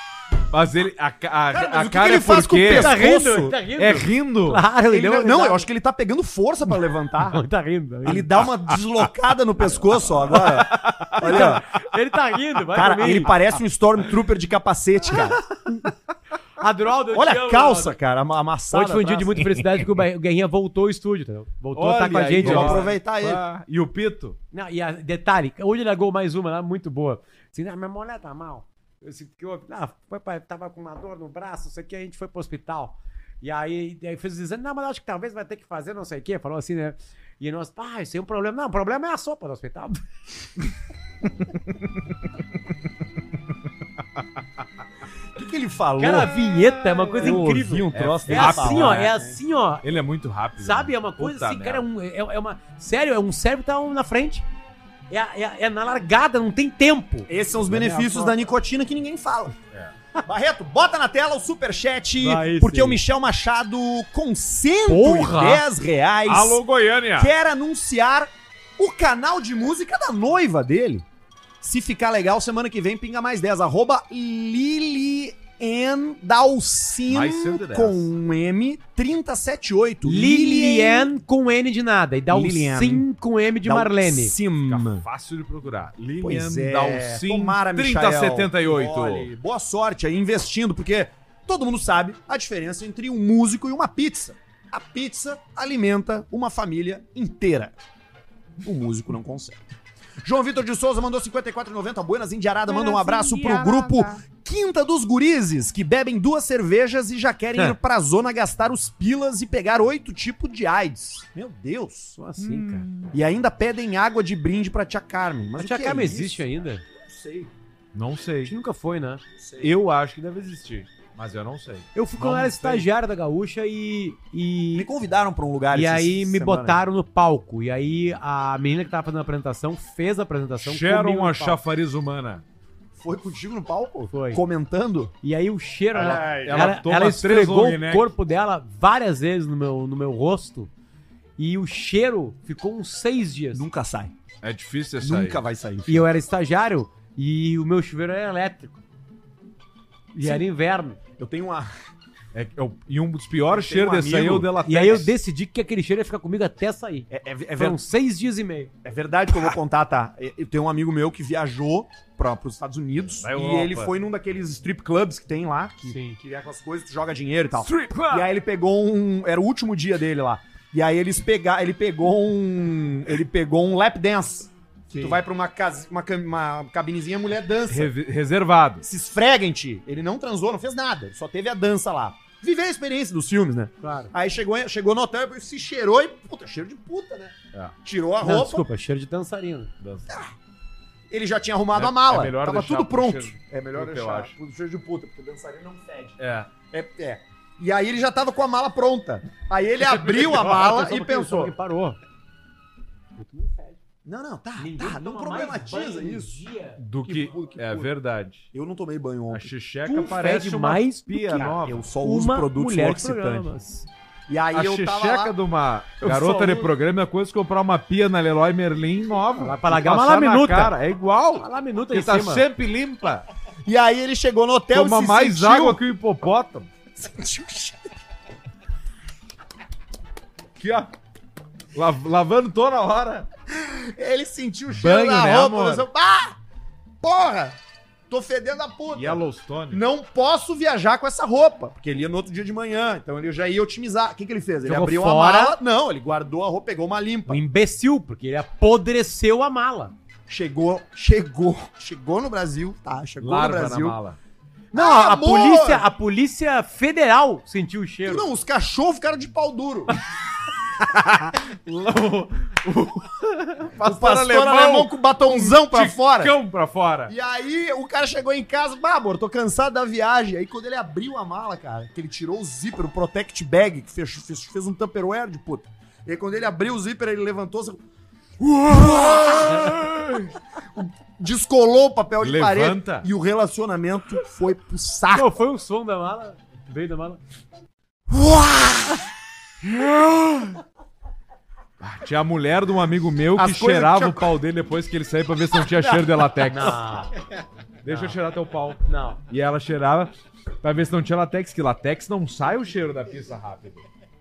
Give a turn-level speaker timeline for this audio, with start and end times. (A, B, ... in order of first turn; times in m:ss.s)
0:00.5-0:03.0 A
0:01.5-0:03.6 B
0:02.7-0:05.7 C
0:03.7-0:04.6 A
0:04.9-0:07.4 B
0:07.2-0:08.4 C
0:08.0-0:11.6 B
0:10.3-0:11.6 A
0:11.2-0:13.4 C
0:12.7-0:15.4 B
0:16.6-0:18.0 C
0:17.1-0:19.4 B
0:18.7-0:22.8 C
0:21.7-0:24.4 A
0:22.4-0:23.4 B
0:24.5-0:40.0 C
0:45.3-0:46.3 B
0:46.0-0:49.8 C
0:47.0-0:49.1 A
0:47.2-0:49.4 B
0:49.8-0:51.8 A
0:50.6-0:54.4 C
0:55.1-0:58.4 C
0:57.3-0:59.6 B
1:00.2-1:06.6 B
1:02.2-1:03.0 C
1:04.9-1:05.6 C
1:06.2-1:07.3 A
1:07.2-1:11.0 B
1:11.6-1:21.1 B
1:17.1-1:18.1 A
1:20.0-1:24.3 C
1:22.3-1:23.0 B
1:23.6-1:25.0 B
1:24.6-1:29.3 A
1:26.2-1:37.7 B
1:38.6-1:39.6 B
1:40.2-1:52.2 B
1:42.7-1:44.1 C
1:52.2-1:52.9 C
1:52.4-1:53.1 A
1:53.1-1:57.5 B
1:55.6-1:56.8 C
1:57.9-1:58.5 A
1:58.4-1:59.2 C
1:59.3-1:59.8 B
1:59.6-2:02.9 A
2:01.9-2:04.9 C
2:04.7-2:06.8 B
2:05.7-2:11.6 C
2:10.6-2:12.4 A
2:13.0-2:15.1 B
2:14.1-2:14.4 C
2:15.2-2:20.7 C
2:15.9-2:16.8 B
2:16.0-2:18.1 A
2:21.4-2:23.6 C
2:23.5-2:24.1 B
2:24.4-2:25.4 A
2:25.0-2:26.1 B
2:25.9-2:28.8 C
2:30.1-2:31.0 C
2:30.2-2:30.5 B
2:31.2-2:31.7 B
2:32.3-2:35.1 A
2:33.5-2:34.5 B
2:34.6-2:38.7 C
2:37.1-2:37.8 B
2:38.8-2:57.9 B
2:43.2-2:44.0 A
2:47.6-2:48.2 A
2:57.7-2:58.9 A
2:58.8-3:08.6 B
3:03.8-3:04.1 C
3:08.2-3:09.7 C
3:09.8-3:10.2 A
3:11.1-3:21.5 B
3:11.7-3:14.4 A
3:16.2-3:16.5 A
3:20.0-3:20.9 A
3:20.4-3:22.0 C
3:23.2-3:23.8 C
3:24.0-3:26.4 B
3:24.6-3:27.5 C
3:26.8-3:28.5 A
3:27.0-3:27.9 B
3:28.5-3:29.5 B
3:29.3-3:31.8 A
3:29.8-3:31.5 C
3:31.3-3:33.5 B
3:32.0-3:33.9 C
3:34.3-3:35.3 B
3:34.5-3:43.2 A
3:36.0-3:36.7 C
3:39.4-3:40.8 C
3:41.4-3:42.4 C
3:43.6-3:45.8 B
3:44.7-3:46.7 A
3:46.9-3:47.9 B
3:50.6-3:50.9 A
3:51.7-3:53.3 A
3:53.5-3:56.4 B
3:54.7-3:55.8 A
3:57.0-3:57.6 B
3:58.1-4:07.4 B
3:58.9-3:59.8 A
4:04.6-4:05.6 C
4:07.3-4:09.9 C
4:10.3-4:14.0 B
4:13.2-4:14.2 A
4:14.7-4:18.2 C
4:14.7-4:15.8 B
4:18.0-4:20.0 B
4:20.8-4:27.1 A
4:23.8-4:26.3 B
4:27.1-4:37.8 B
4:38.4-4:40.3 A
4:38.6-4:39.9 B
4:40.6-4:45.3 B
4:42.2-4:43.1 A
4:45.1-4:47.2 C
4:48.1-4:49.0 B
4:49.6-4:50.6 A
4:51.8-4:56.8 A
4:53.4-4:54.4 B
4:55.7-4:56.1 B
4:56.5-4:57.1 C
4:57.8-5:03.8 A
4:57.8-4:58.2 C
4:58.8-4:59.2 C